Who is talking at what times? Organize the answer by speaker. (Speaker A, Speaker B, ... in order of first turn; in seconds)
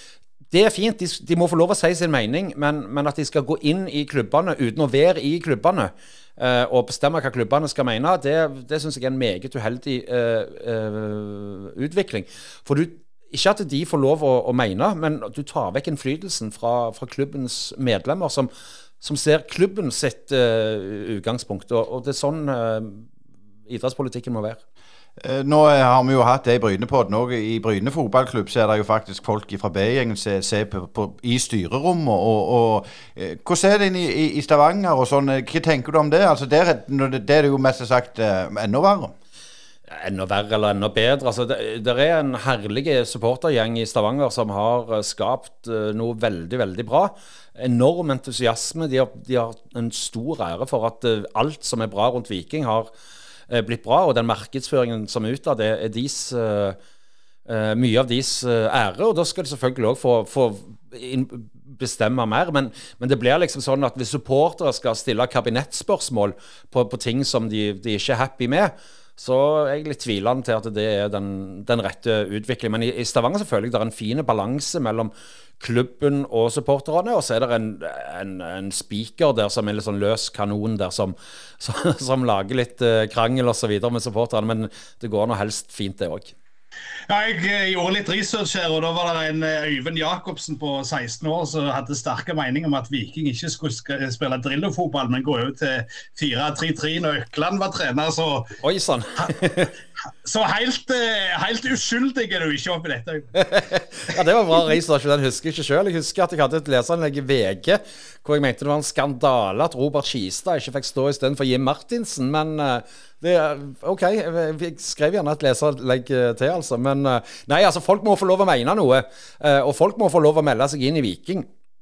Speaker A: 0.5-18.5, 19.0-23.1, 23.7-24.6, 39.9-52.9, 53.5-56.8, 57.5-86.3, 98.6-99.7, 103.4-121.5
Speaker B: 25.2-39.1
Speaker C: 87.1-98.6, 100.2-103.3